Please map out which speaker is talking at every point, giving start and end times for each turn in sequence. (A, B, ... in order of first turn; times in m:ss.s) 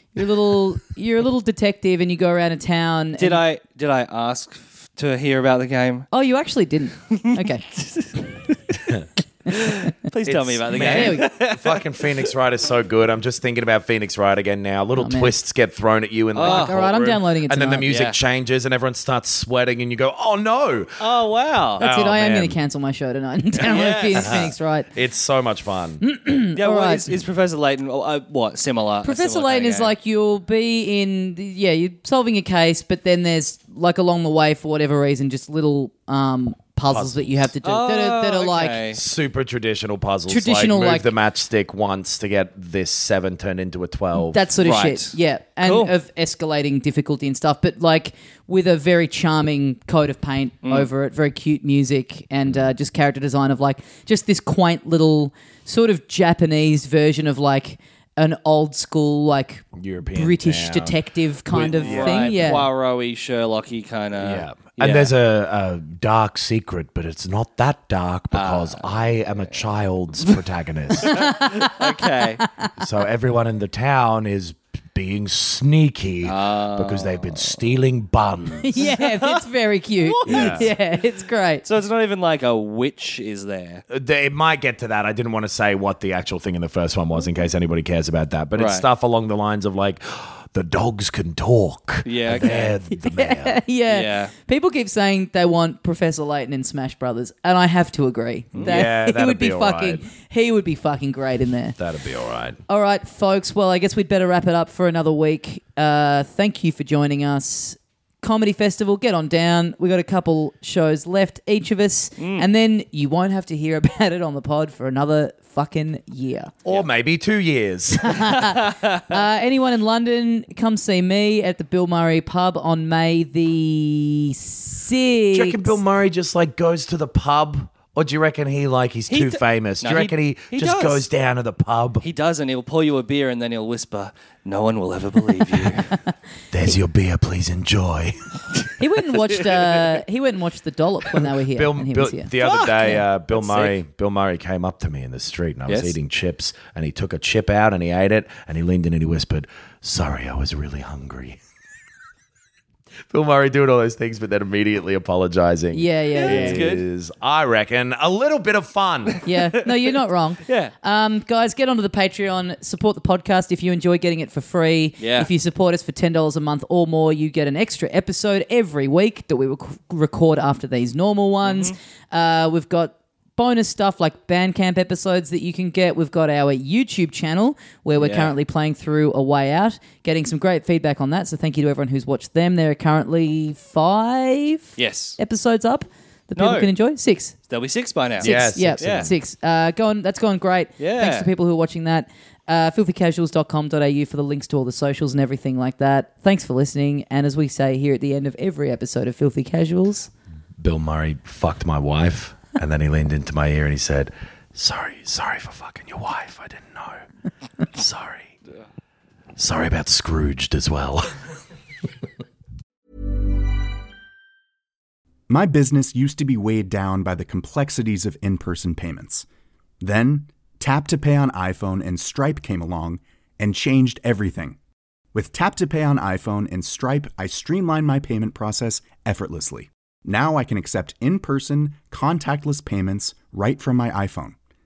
0:00.1-0:03.4 A
0:03.2-0:06.1 B
0:06.1-0:07.6 A
0:07.1-0:11.8 B
0:09.5-0:09.9 A
0:10.2-0:21.1 C
0:10.7-0:11.3 A
0:15.0-0:15.3 A
0:16.3-0:16.8 B
0:16.4-0:17.9 A
0:17.8-0:18.2 B
0:21.0-0:21.8 B
0:21.8-0:22.6 C
0:21.8-0:24.9 A
0:23.6-0:24.5 B
0:23.6-0:26.0 C
0:26.0-0:27.1 A
0:26.6-0:29.9 B
0:29.0-0:38.8 A
0:36.9-0:37.3 C
0:37.6-0:39.0 B
0:38.9-0:44.5 C
0:40.3-0:41.1 A
0:44.2-1:02.7 A
0:44.6-0:45.9 B
0:59.7-1:02.4 C
1:01.6-1:05.1 B
1:04.2-1:11.3 C
1:08.3-1:09.6 B
1:11.0-1:12.7 A
1:11.1-1:12.4 B
1:12.8-1:18.8 C
1:16.2-1:17.6 B
1:18.6-1:21.6 A
1:18.8-1:19.4 B
1:20.0-1:20.7 B
1:20.3-1:20.7 C
1:21.6-1:23.8 B
1:23.9-1:33.6 C
1:28.6-1:28.8 B
1:32.0-1:32.8 B
1:32.9-1:41.8 A
1:33.9-1:34.3 B
1:38.5-1:38.8 B
1:38.6-1:40.0 C
1:41.8-1:42.6 C
1:42.7-1:56.5 A
1:52.2-1:52.4 B
1:56.6-1:58.5 C
1:58.0-2:05.8 A
1:58.4-1:59.0 B
2:05.3-2:12.0 C
2:09.1-2:11.0 B
2:12.0-2:15.9 B
2:16.5-2:18.4 C
2:18.8-2:22.3 A
2:21.2-2:31.4 C
2:22.4-2:23.7 B
2:25.7-2:25.9 B
2:33.1-2:39.2 C
2:35.7-2:36.7 A
2:36.1-2:36.8 B
2:39.2-3:07.3 A
2:40.4-2:40.7 B
2:45.0-2:45.3 B
2:51.4-2:51.7 B
2:58.0-2:58.3 B
3:04.8-3:05.2 B
3:06.4-3:06.7 B
3:07.5-3:09.1 B
3:08.2-3:09.1 C
3:08.2-3:20.1 A
3:10.8-3:11.3 B
3:20.6-3:27.0 C
3:27.7-3:28.3 C
3:29.4-3:31.2 C
3:35.3-3:39.2 D
3:39.8-3:44.6 D
3:45.1-3:54.4 D